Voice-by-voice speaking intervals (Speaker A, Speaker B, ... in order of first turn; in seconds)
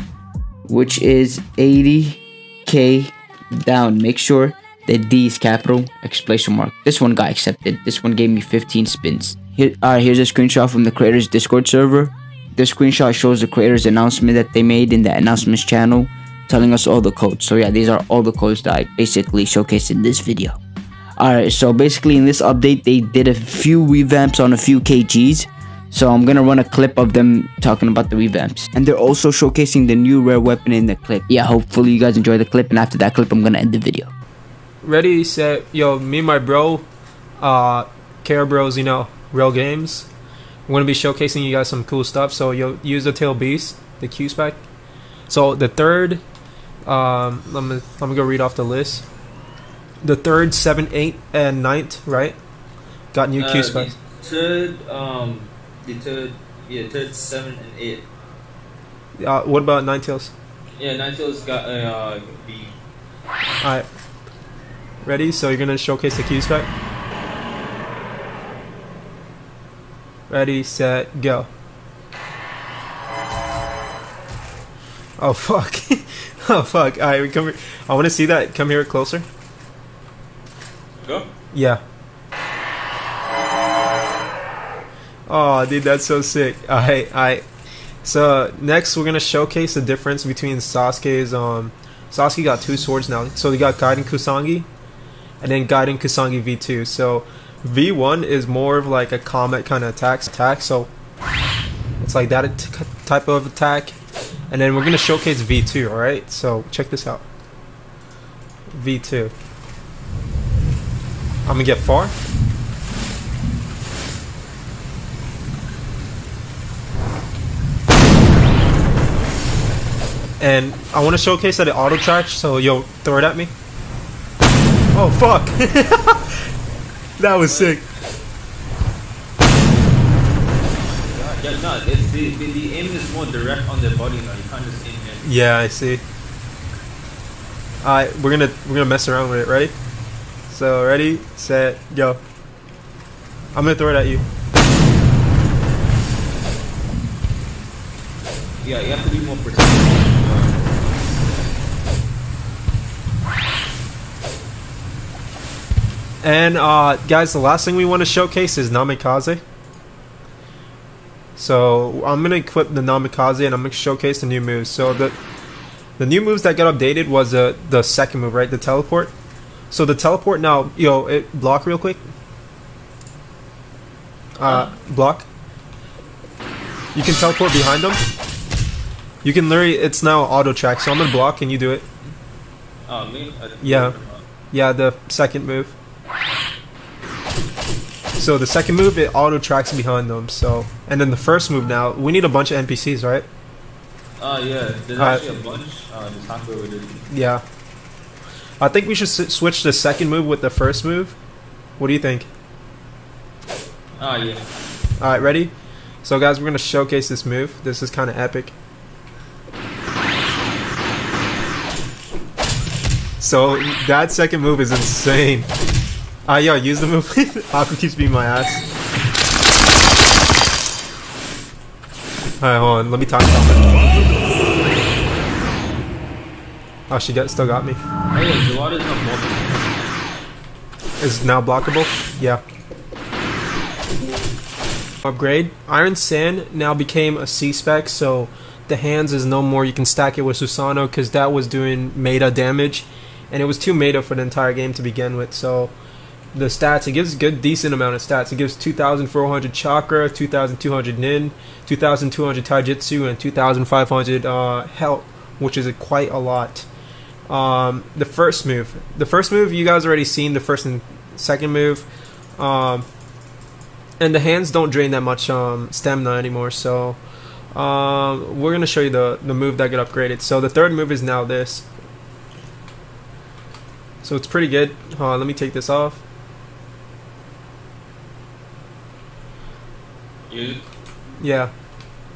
Speaker A: 0.7-20.6, 21.2-34.1
Speaker B: 34.8-36.9, 37.4-40.1, 40.7-44.6, 45.3-46.2, 46.9-49.1, 50.0-52.4, 53.1-54.0, 59.2-60.3, 63.6-63.9, 65.0-66.7, 70.3-71.5, 75.2-79.3, 81.5-81.8, 85.3-87.4, 88.0-94.7, 95.4-100.9, 102.0-104.0, 104.5-107.3, 108.7-109.3, 111.5-112.2, 120.4-123.5, 124.9-126.4, 127.2-127.8, 135.2-136.0, 137.8-139.8, 140.5-142.2, 143.5-144.2, 156.2-159.4, 161.4-165.2, 166.0-169.2, 169.7-172.0, 174.4-175.3, 176.9-178.0, 179.2-181.9, 183.6-183.9, 184.5-185.8, 188.2-193.3, 195.0-195.3, 197.1-197.4, 198.6-201.2, 201.8-202.3, 205.0-205.5, 206.0-208.5, 213.2-215.5, 216.3-218.7, 222.4-223.7, 226.9-227.8, 231.0-232.4, 235.0-245.7, 246.3-256.7, 257.3-262.9, 264.0-267.0, 267.5-271.7, 274.0-276.0, 281.2-281.5
Speaker C: 53.4-58.1, 60.8-62.8, 81.0-81.3, 127.5-127.8, 130.8-135.3, 148.6-150.7, 182.9-184.3, 194.2-197.1, 204.0-204.5, 228.1-229.8, 280.3-280.6